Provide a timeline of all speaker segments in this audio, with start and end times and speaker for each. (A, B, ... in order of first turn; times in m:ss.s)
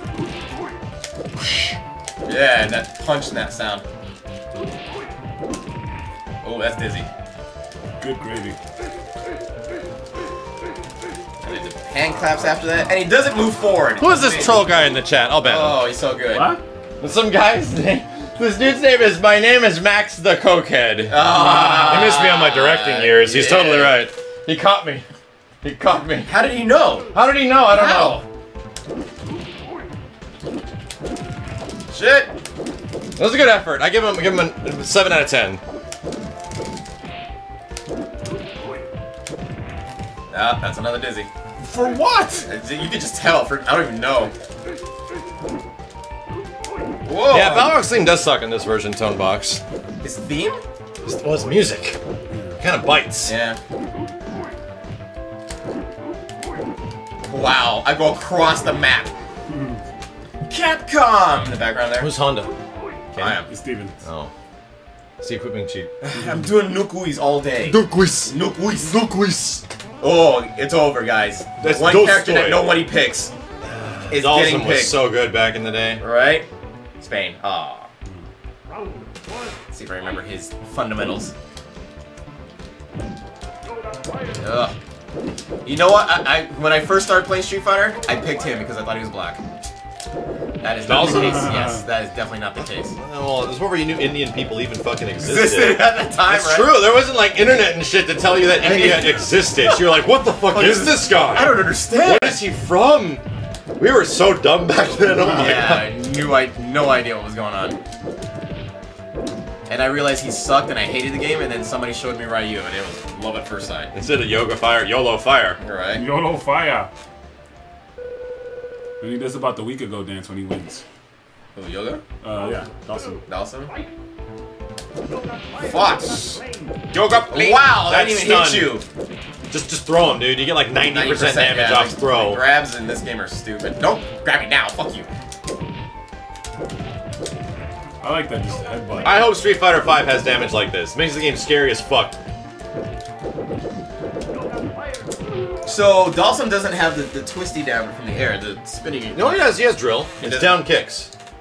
0:01.4-0:01.8 A
0:02.3-0:03.8 B
0:06.4-0:07.1 B
0:08.0-0:08.6 A
0:11.4-0:14.6 B
0:14.0-0:15.8 C
0:15.5-0:16.4 B
0:16.3-0:16.6 A
0:17.0-0:25.1 C
0:21.1-0:24.0 B
0:25.6-0:26.3 C
0:26.3-0:27.1 B
0:27.1-0:28.2 C
0:27.7-0:28.2 B
0:31.9-0:32.3 B
0:33.2-0:35.6 C
0:40.3-0:41.3 B
0:41.6-0:42.5 A
0:42.5-0:44.3 B
0:47.1-0:47.7 B
0:47.3-0:49.6 C
0:50.0-0:50.6 B
0:51.0-0:52.0 C
0:52.3-0:52.6 A
0:52.6-0:53.3 C
0:53.3-0:53.6 B
0:57.3-0:59.1 B
0:59.5-0:59.8 A
1:00.5-1:02.1 B
1:02.0-1:02.5 C
1:03.1-1:03.5 C
1:03.2-1:03.4 B
1:03.5-1:03.9 A
1:04.0-1:04.3 C
1:05.2-1:05.9 C
1:06.0-1:08.9 B
1:06.1-1:06.5 A
1:07.6-1:09.6 C
1:10.0-1:13.3 B
1:11.6-1:12.7 C
1:13.7-1:16.0 C
1:14.1-1:15.0 B
1:16.0-1:16.5 B
1:17.0-1:17.9 B
1:19.7-1:21.3 B
1:24.4-1:24.7 B
1:25.6-1:29.4 B
1:30.6-1:33.0 B
1:30.9-1:31.7 C
1:30.9-1:31.8 A
1:32.9-1:43.2 C
1:35.2-1:36.8 B
1:38.6-1:39.8 B
1:40.5-1:42.4 B
1:43.8-1:46.0 C
1:45.1-1:45.6 A
1:45.4-1:47.8 B
1:49.7-1:53.9 B
1:53.9-1:55.6 C
1:55.6-1:56.0 B
1:55.9-1:56.9 A
1:59.0-2:00.8 A
2:01.6-2:02.0 B
2:02.2-2:03.2 A
2:03.3-2:03.7 B
2:05.6-2:06.4 B
2:06.9-2:08.7 C
2:07.3-2:08.8 B
2:09.5-2:12.4 C
2:10.9-2:15.1 B
2:18.0-2:19.2 A
2:19.0-2:22.2 C
2:25.7-2:29.4 B
2:29.1-2:31.1 C
2:30.2-2:30.6 B